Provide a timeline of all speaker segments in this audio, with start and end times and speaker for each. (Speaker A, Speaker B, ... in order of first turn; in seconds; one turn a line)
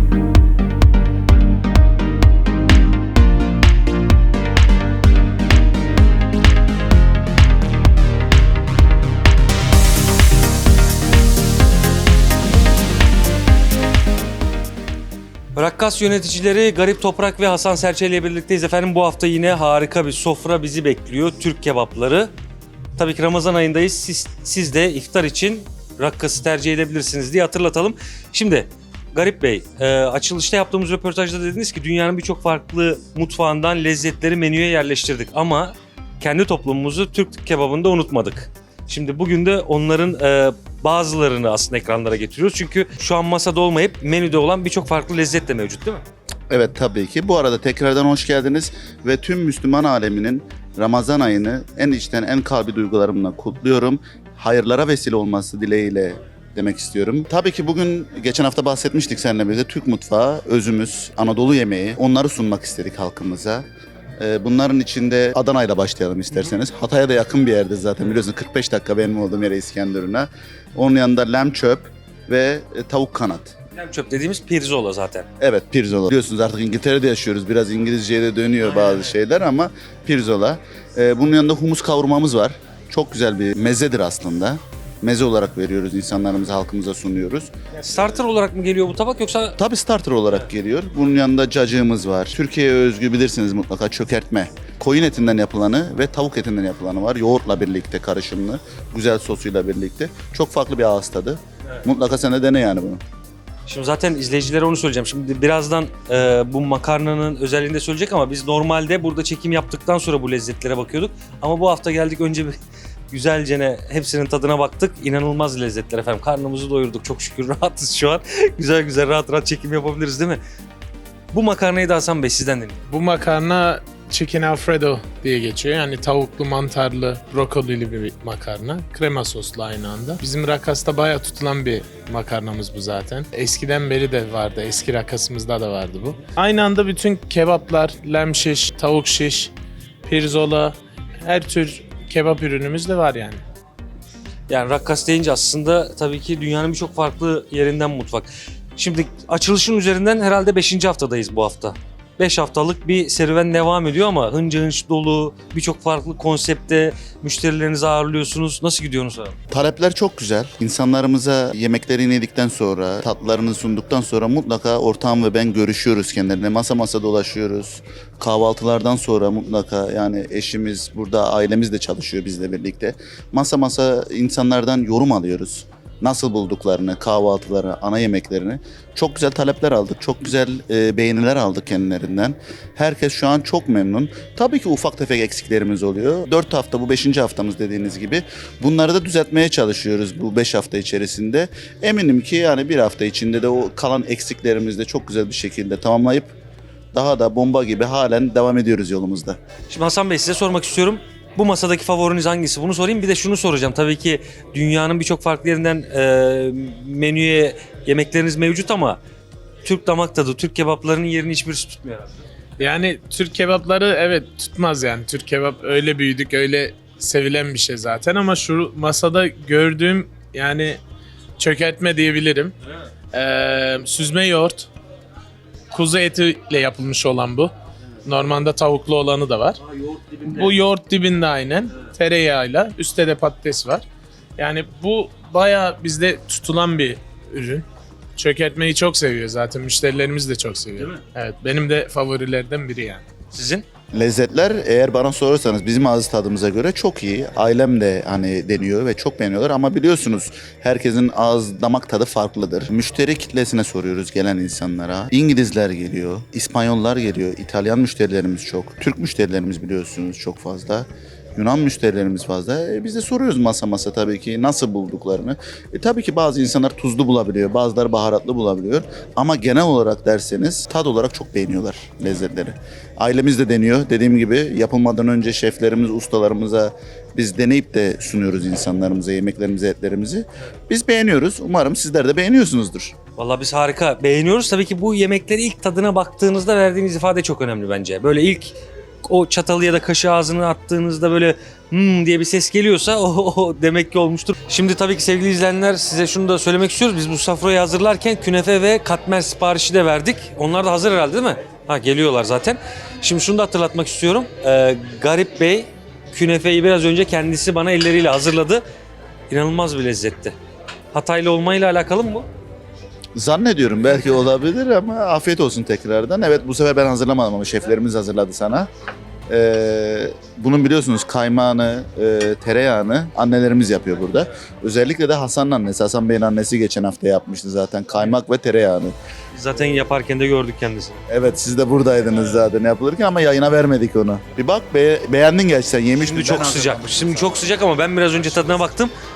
Speaker A: 15.5-22.3
Speaker A: 23.0-46.0
Speaker B: 46.5-63.6
Speaker B: 64.2-73.5
Speaker A: 73.7-75.3
Speaker B: 75.4-87.5
Speaker A: 87.8-89.6
Speaker B: 89.6-103.0
Speaker A: 103.7-112.6
Speaker A: 113.1-120.4
Speaker A: 121.3-122.8
Speaker C: 122.9-139.5
Speaker C: 140.1-143.4
Speaker A: 144.5-159.3
Speaker B: 159.5-196.3
Speaker B: 196.9-199.4
Speaker A: 199.7-209.0
Speaker A: 209.6-212.1
Speaker C: 212.6-220.8
Speaker C: 221.4-222.5
Speaker C: 223.1-224.7
Speaker C: 225.7-227.5
Speaker C: 228.0-229.6
Speaker A: 229.7-230.6
Speaker C: 230.3-233.8
Speaker C: 234.4-237.6
Speaker C: 238.2-243.1
Speaker A: 243.3-243.6
Speaker B: 243.9-282.9
Speaker A: 283.1-308.6
Speaker A: 309.3-310.4
Speaker A: 310.9-312.3
Speaker B: 313.1-318.7
Speaker B: 319.3-328.9
Speaker A: 329.3-331.0
Speaker B: 331.1-337.6
Speaker A: 335.9-338.9